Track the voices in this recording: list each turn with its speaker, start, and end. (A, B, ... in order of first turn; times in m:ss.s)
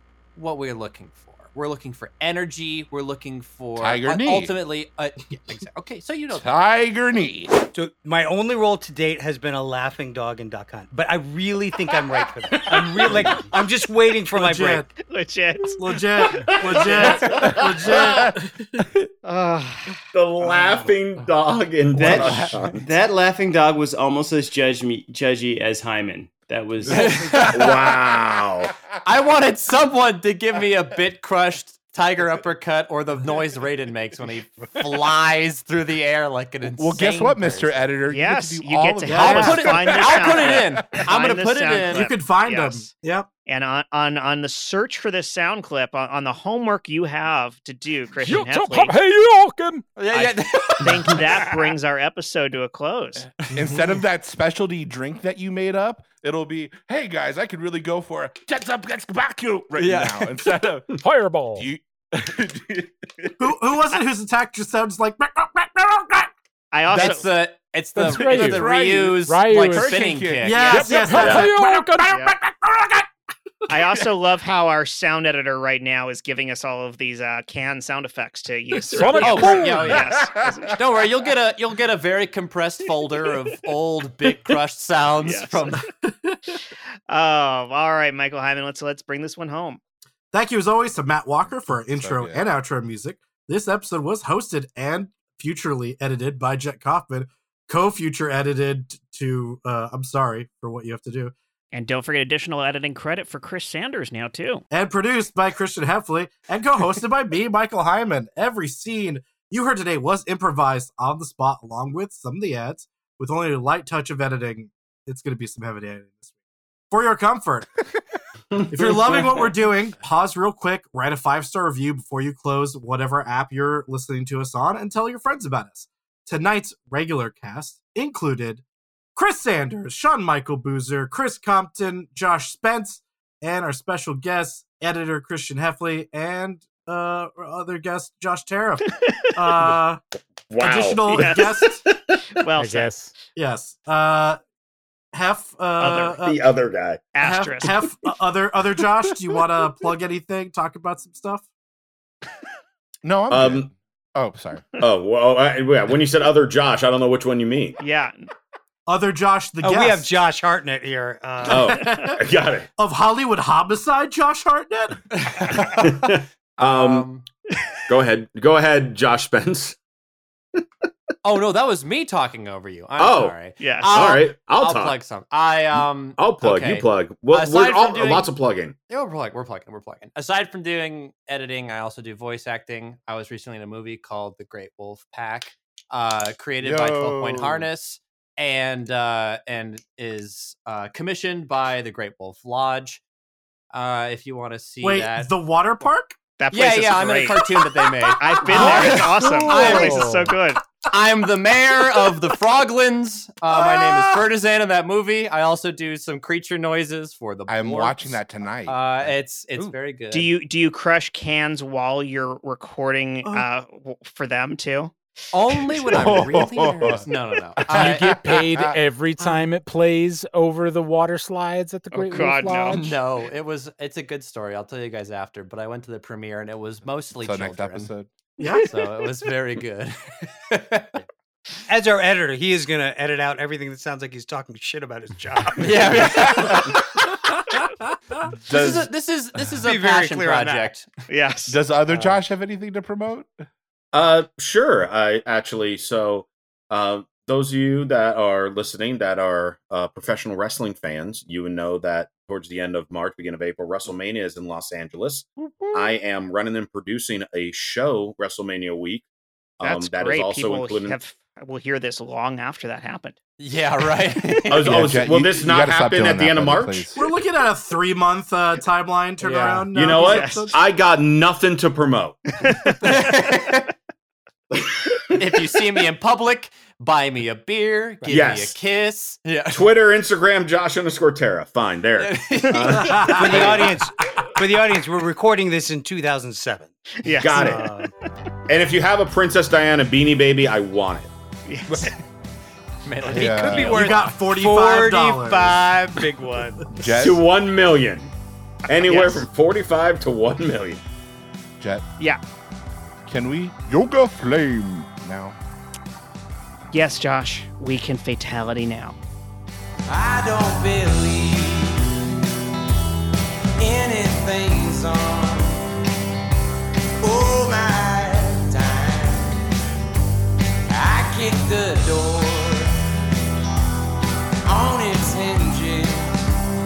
0:00.4-0:06.5 A
0:03.8-0:04.6 B
0:06.3-0:07.5 B
0:07.7-0:14.8 C
0:14.3-0:14.9 D
0:15.0-0:16.0 E
0:15.8-0:18.6 D
0:16.3-0:18.2 F
0:17.9-0:18.3 B
0:19.2-0:20.0 E
0:20.1-0:22.8 F
0:21.9-0:27.4 G
0:22.0-0:22.6 A
0:26.8-0:27.8 B
0:26.9-0:27.9 A
0:27.5-0:28.7 F
0:29.0-0:37.8 A
0:36.7-0:41.0 B
0:38.1-0:42.9 E
0:39.1-0:39.6 D
0:39.2-0:42.1 A
0:41.8-0:43.3 D
0:43.4-0:48.9 E
0:48.2-0:49.8 H
0:50.0-0:51.5 A
0:50.1-0:53.3 E
0:53.5-0:54.0 A
0:53.5-1:00.9 B
0:59.8-1:00.4 A
1:00.9-1:01.7 H
1:01.5-1:03.3 B
1:03.4-1:06.3 D
1:06.7-1:07.2 E
1:06.9-1:10.8 A
1:07.9-1:10.1 H
1:08.0-1:11.6 B
1:10.4-1:13.0 D
1:10.6-1:12.2 H
1:11.1-1:11.4 F
1:12.1-1:12.3 E
1:13.7-1:20.8 E
1:18.9-1:20.0 H
1:19.2-1:20.2 A
1:19.5-1:20.8 B
1:20.7-1:25.8 A
1:25.2-1:25.6 E
1:25.8-1:26.5 D
1:27.1-1:29.8 E
1:30.3-1:41.3 D
1:31.7-1:32.4 B
1:41.7-1:44.6 E
1:44.7-1:56.3 D
1:56.9-1:57.8 D
1:58.7-2:08.6 D
2:09.1-2:20.0 D
2:20.5-2:22.2 F
2:20.6-2:21.8 D
2:21.2-2:21.6 E
2:22.4-2:22.9 E
2:22.6-2:23.1 H
2:23.3-2:24.4 D
2:25.1-2:26.4 D
2:25.8-2:26.2 E
2:26.2-2:27.1 F
2:27.1-2:27.7 E
2:27.2-2:31.4 D
2:33.0-2:34.7 B
2:33.3-2:33.7 F
2:34.8-2:37.8 F
2:37.8-2:38.2 E
2:38.9-2:40.1 D
2:39.6-2:41.8 C
2:41.4-2:42.7 F
2:41.6-2:42.1 D
2:42.8-2:45.0 D
2:45.1-2:47.2 A
2:45.6-2:47.1 F
2:47.9-2:49.8 F
2:51.2-2:58.3 A
2:53.0-2:53.4 F
2:53.6-2:54.0 E
2:53.9-2:55.0 F
2:55.7-2:58.8 F
2:58.9-3:13.0 A
3:06.6-3:07.7 B
3:13.7-3:15.3 A
3:14.8-3:16.2 D
3:16.4-3:17.5 E
3:16.5-3:20.3 A
3:18.1-3:20.6 E
3:18.1-3:19.7 D
3:18.5-3:20.3 H
3:20.8-3:30.3 A
3:27.5-3:29.7 B
3:30.1-3:34.9 E
3:35.3-3:38.2 A
3:35.9-3:37.0 B
3:37.6-3:38.8 B
3:37.7-3:42.9 H
3:41.9-3:42.8 E
3:42.7-3:47.9 A
3:47.2-3:48.1 B
3:48.4-3:48.7 D
3:48.4-3:51.0 A
3:51.7-3:56.8 C
3:55.6-3:57.2 A
3:55.9-3:56.7 B
3:58.4-3:58.9 B
3:58.4-4:00.9 A
3:59.6-4:00.7 C
4:01.1-4:01.6 E
4:01.5-4:03.3 B
4:01.9-4:02.2 C
4:03.9-4:19.0 F
4:19.6-4:21.0 F
4:19.6-4:23.2 E
4:23.4-4:25.0 A
4:24.5-4:26.9 F
4:24.6-4:27.0 B
4:26.9-4:30.6 D
4:29.2-4:29.7 H
4:29.7-4:32.2 F
4:30.0-4:30.5 E
4:32.4-4:33.1 E
4:32.8-4:33.7 A
4:35.1-4:39.8 A
4:38.0-4:38.6 F
4:39.5-4:43.7 F
4:42.0-4:43.7 A
4:42.7-4:43.4 D
4:43.2-4:46.7 C
4:47.0-4:47.7 E
4:47.2-4:47.6 F
4:47.3-4:47.9 C
4:48.5-4:51.1 F
4:51.4-4:51.9 E
4:52.8-4:54.2 A
4:53.1-4:53.8 B
4:53.5-4:55.7 D
4:53.8-4:56.7 C
4:56.7-4:57.2 B
4:56.9-4:58.1 F
4:58.7-5:00.8 F
4:58.7-4:59.3 E
5:01.6-5:01.8 B
5:03.0-5:05.4 B
5:06.7-5:09.0 E
5:09.9-5:12.1 I
5:13.6-5:15.6 I
5:17.0-5:19.4 I
5:20.7-5:22.8 I
5:24.4-5:26.2 I